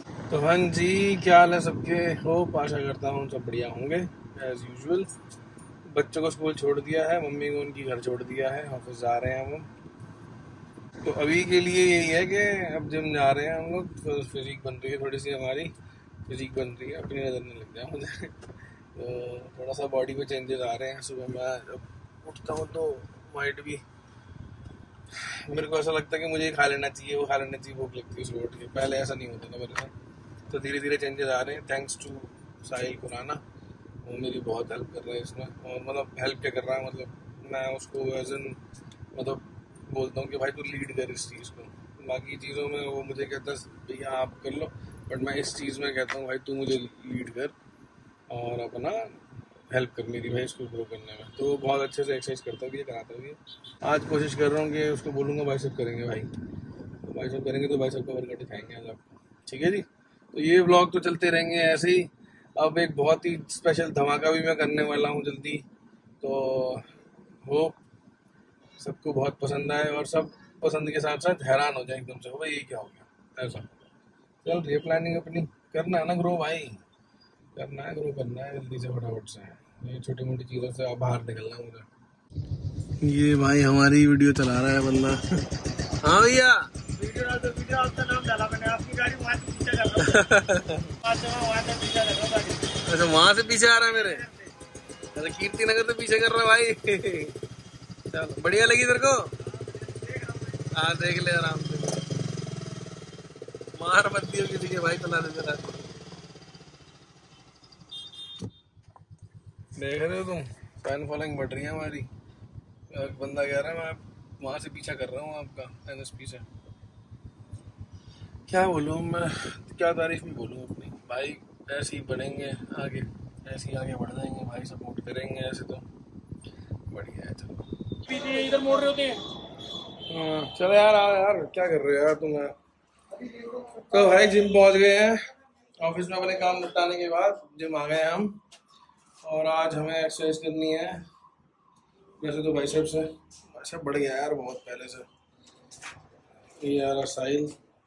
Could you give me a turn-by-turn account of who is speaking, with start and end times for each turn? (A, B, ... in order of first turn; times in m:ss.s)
0:00.3-0:05.1 A
0:05.9-0:09.7 A
0:11.0-0:15.7 A
0:16.3-0:18.3 A
0:18.9-0:23.8 A
0:25.5-0:29.9 A
0:30.5-0:33.4 A
0:34.0-0:38.6 A
0:39.1-0:47.5 A
0:48.3-0:49.1 A
0:49.7-0:56.3 A
0:57.0-1:05.6 A
1:06.2-1:06.8 A
1:07.4-1:07.8 A
1:08.8-1:13.7 A
1:14.4-1:16.8 A
1:17.6-1:21.8 A
1:23.0-1:25.2 A
1:26.0-1:26.6 A
1:27.1-1:29.9 B
1:30.0-1:30.9 A
1:31.1-1:32.4 B
1:32.8-1:34.3 A
1:35.1-1:37.3 A
1:38.1-1:39.2 A
1:40.7-1:42.0 A
1:43.8-1:45.9 A
1:49.8-1:52.1 A
1:52.9-1:56.4 A
1:58.5-2:05.8 A
2:06.9-2:07.7 A
2:08.1-2:09.1 B
2:10.1-2:12.5 A
2:13.9-2:15.2 A
2:15.8-2:18.4 A
2:19.2-2:21.0 A
2:22.2-2:25.1 A
2:26.6-2:27.5 A